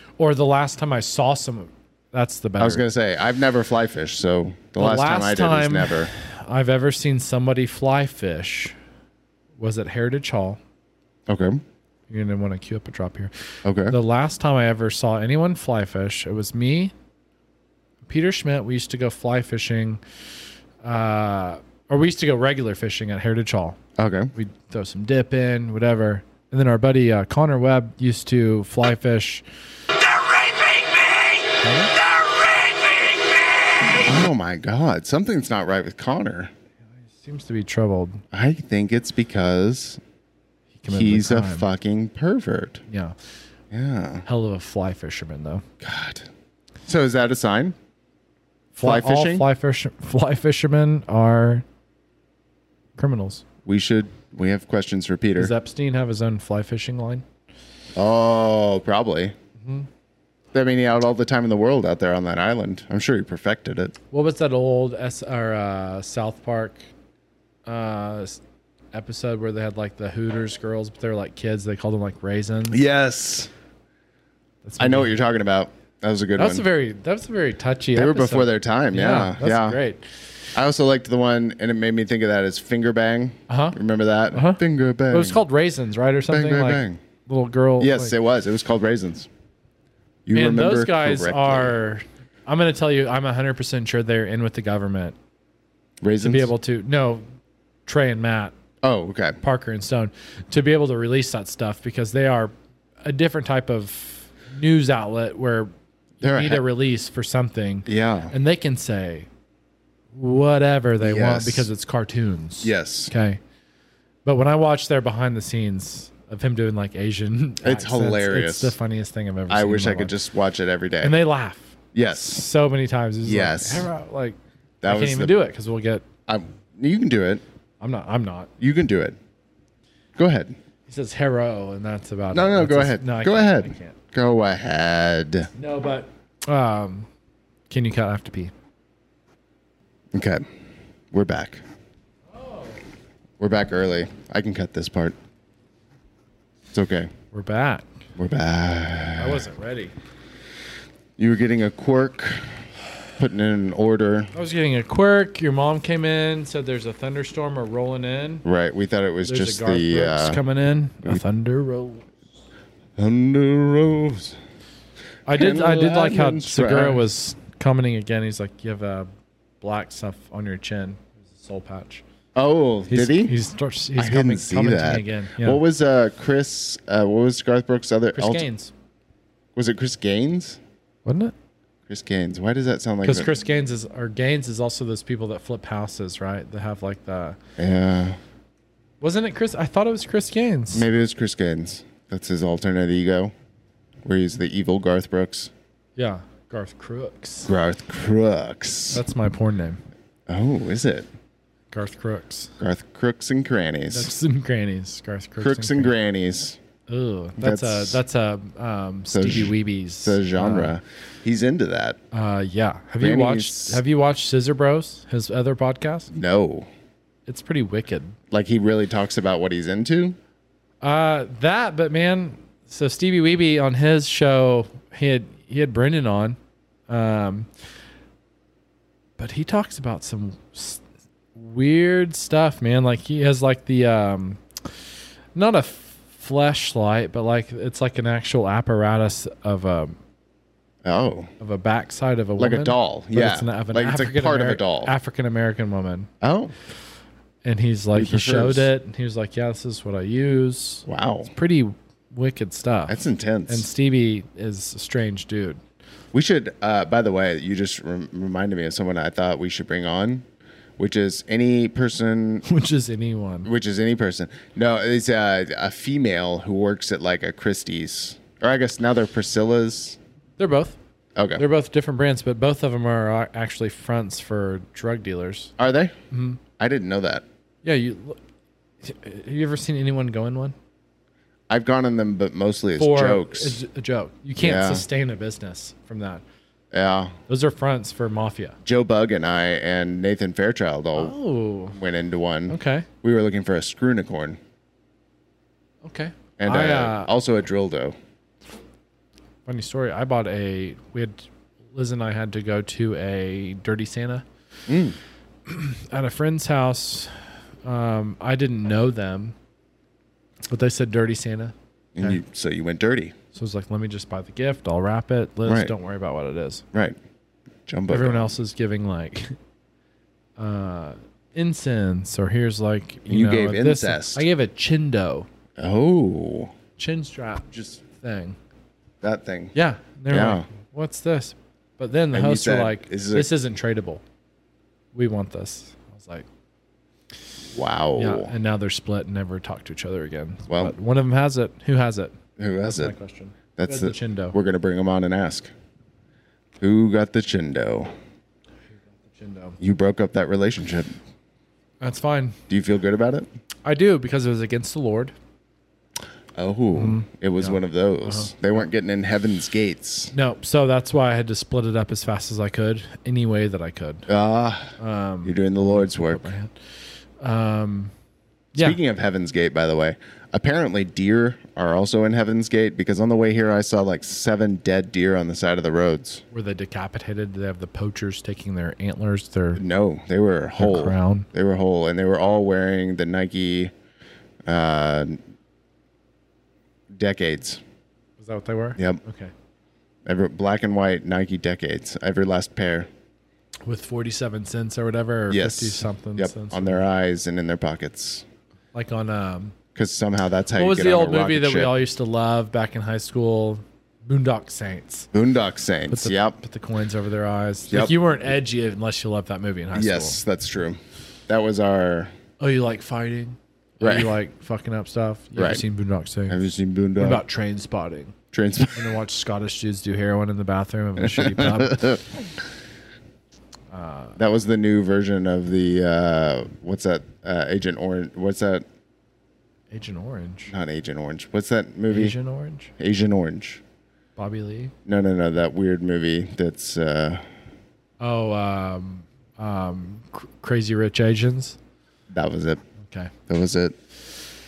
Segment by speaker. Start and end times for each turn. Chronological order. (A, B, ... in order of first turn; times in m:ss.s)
0:00.2-0:02.8 A
0:02.6-0:06.1 B
0:04.8-0:08.7 A
0:09.6-0:10.6 A
0:11.3-0:11.6 B
0:12.1-0:13.3 A
0:13.6-0:14.0 B
0:13.9-0:16.9 A
0:18.0-0:20.0 A
0:20.8-0:23.8 A
0:24.0-0:24.3 B
0:24.3-0:29.4 A
0:31.6-0:31.9 A
0:33.9-0:36.5 B
0:37.0-0:38.2 A
0:38.3-0:40.0 B
0:40.8-0:41.7 A
0:40.9-0:42.8 B
0:42.9-0:43.2 A
0:43.7-0:44.2 B
0:44.2-0:45.6 A
0:45.8-0:46.3 B
0:46.8-0:47.8 B
0:48.7-0:51.6 A
0:48.8-0:49.5 B
0:53.0-0:53.4 A
0:53.6-0:55.5 B
0:55.4-0:57.2 A
0:57.9-0:59.3 B
0:59.6-0:59.9 A
1:00.5-1:03.9 B
1:04.1-1:06.8 A
1:07.6-1:08.4 A
1:08.9-1:12.8 A
1:12.7-1:13.5 B
1:14.6-1:15.1 A
1:14.8-1:16.6 B
1:16.4-1:20.0 A
1:17.9-1:19.8 B
1:20.5-1:25.4 B
1:23.5-1:23.8 A
1:24.3-1:28.1 A
1:26.3-1:27.0 B
1:27.8-1:29.3 B
1:30.2-1:31.8 B
1:30.3-1:35.2 A
1:36.0-1:36.5 B
1:36.2-1:37.2 A
1:37.8-1:38.5 A
1:38.8-1:39.4 B
1:39.4-1:49.3 A
1:46.2-1:46.6 B
1:47.8-1:48.3 B
1:50.1-1:53.4 A
1:51.0-1:51.7 B
1:52.6-1:53.1 B
1:54.2-2:00.1 A
1:57.6-1:58.8 B
1:59.5-2:01.2 B
2:01.0-2:06.0 A
2:01.9-2:02.5 B
2:03.2-2:03.9 B
2:04.8-2:05.4 B
2:06.3-2:07.4 B
2:07.8-2:08.5 A
2:08.6-2:09.2 B
2:10.2-2:10.6 B
2:10.9-2:14.0 A
2:12.3-2:15.5 B
2:15.5-2:17.1 A
2:17.7-2:18.5 A
2:20.1-2:20.5 B
2:21.1-2:21.6 B
2:22.3-2:22.8 A
2:23.4-2:25.2 B
2:26.7-2:27.1 B
2:27.3-2:27.9 A
2:28.2-2:29.5 B
2:29.2-2:29.9 A
2:31.2-2:32.5 B
2:33.2-2:34.3 B
2:34.3-2:38.4 A
2:38.4-2:40.4 B
2:39.2-2:42.0 A
2:43.0-2:44.4 B
2:45.2-2:49.1 A
2:45.3-2:47.0 B
2:49.6-2:52.0 A
2:52.3-2:53.4 B
2:52.9-2:55.6 A
2:54.0-2:58.5 B
2:58.1-2:58.7 A
2:59.5-3:00.6 B
3:01.0-3:01.3 A
3:01.9-3:03.3 B
3:03.0-3:07.4 A
3:07.6-3:08.2 B
3:09.0-3:10.8 A
3:10.7-3:13.3 B
3:14.0-3:15.5 B
3:16.0-3:17.5 A
3:17.5-3:19.0 B
3:18.9-3:19.8 A
3:20.3-3:21.1 B
3:21.7-3:22.5 A
3:22.6-3:24.1 B
3:23.9-3:25.9 A
3:25.4-3:26.6 B
3:26.9-3:30.7 A
3:27.4-3:28.0 B
3:29.1-3:32.0 B
3:32.1-3:36.1 A
3:33.0-3:33.8 B
3:36.1-3:36.7 B
3:37.3-3:38.2 A
3:38.3-3:40.2 B
3:40.8-3:46.4 A
3:46.9-3:47.5 A
3:49.2-3:50.8 A
3:51.3-3:54.4 A
3:55.3-4:00.0 A
4:00.8-4:01.3 B
4:01.4-4:06.1 A
4:02.4-4:04.9 B
4:06.2-4:06.5 B
4:07.4-4:15.6 A
4:07.9-4:08.7 B
4:10.8-4:11.3 B
4:12.9-4:13.7 B
4:16.1-4:20.2 B
4:20.8-4:22.4 B
4:22.4-4:23.5 A
4:23.4-4:30.0 B
4:30.4-4:30.8 A
4:31.2-4:31.4 B
4:31.4-4:35.5 A
4:35.6-4:36.0 B
4:36.1-4:36.4 A
4:36.6-4:37.2 B
4:37.6-4:38.2 A
4:38.8-4:40.5 A
4:41.5-4:43.6 B
4:42.8-4:46.2 A
4:44.4-4:44.8 B
4:46.7-4:47.2 B
4:47.3-4:48.6 A
4:48.6-4:51.2 B
4:50.9-4:51.8 A
4:51.7-4:54.4 B
4:52.5-4:52.9 A
4:55.8-4:57.1 A
4:56.4-4:58.0 B
4:59.4-5:04.2 A
5:04.7-5:05.0 B
5:05.5-5:09.3 A
5:10.5-5:12.2 A
5:11.9-5:13.2 B
5:13.3-5:16.6 A
5:15.4-5:15.7 B
5:16.7-5:17.0 B
5:17.7-5:18.3 B
5:17.9-5:19.4 A
5:20.4-5:25.3 A
5:23.1-5:24.3 B
5:25.6-5:26.5 B
5:26.8-5:28.4 A
5:27.5-5:27.8 B
5:29.0-5:29.5 B
5:29.5-5:34.0 A
5:30.1-5:30.5 B
5:32.1-5:33.3 B
5:34.9-5:36.3 A
5:37.5-5:38.3 B
5:38.0-5:44.4 A
5:40.5-5:40.7 B
5:42.4-5:42.9 B
5:43.6-5:45.5 B
5:46.6-5:47.9 B
5:48.9-5:49.6 A
5:49.6-5:51.0 B
5:51.8-5:52.4 A
5:52.5-5:53.3 B
5:53.6-5:55.1 A
5:56.3-6:00.1 B
5:56.7-5:58.6 A
6:00.1-6:04.1 A
6:04.1-6:06.3 B
6:04.8-6:06.5 A
6:07.2-6:07.9 A
6:08.6-6:16.2 B
6:16.3-6:19.6 A
6:19.5-6:23.7 B
6:20.6-6:21.3 A
6:24.4-6:25.2 B
6:26.9-6:27.6 B
6:28.2-6:29.3 A
6:30.0-6:32.9 B
6:33.7-6:36.8 A
6:35.3-6:38.2 B
6:38.7-6:39.5 A
6:39.7-6:41.8 B
6:40.5-6:45.1 A
6:45.1-6:46.4 B
6:45.9-6:50.2 A
6:47.7-6:48.1 B
6:49.7-6:52.1 B
6:52.4-6:56.4 A
6:53.8-6:54.1 B
6:55.4-6:55.6 B
6:56.3-6:57.2 B
6:57.0-6:58.1 A
6:58.3-6:58.9 B
6:58.8-7:02.0 A
7:01.0-7:02.0 B
7:03.7-7:04.2 A
7:04.2-7:08.6 B
7:09.7-7:10.5 A
7:10.5-7:12.2 B
7:11.9-7:12.7 A
7:12.8-7:13.6 B
7:14.2-7:14.7 A
7:14.8-7:17.2 B
7:18.0-7:21.6 A
7:22.1-7:22.6 B
7:22.8-7:23.1 A
7:23.3-7:23.8 B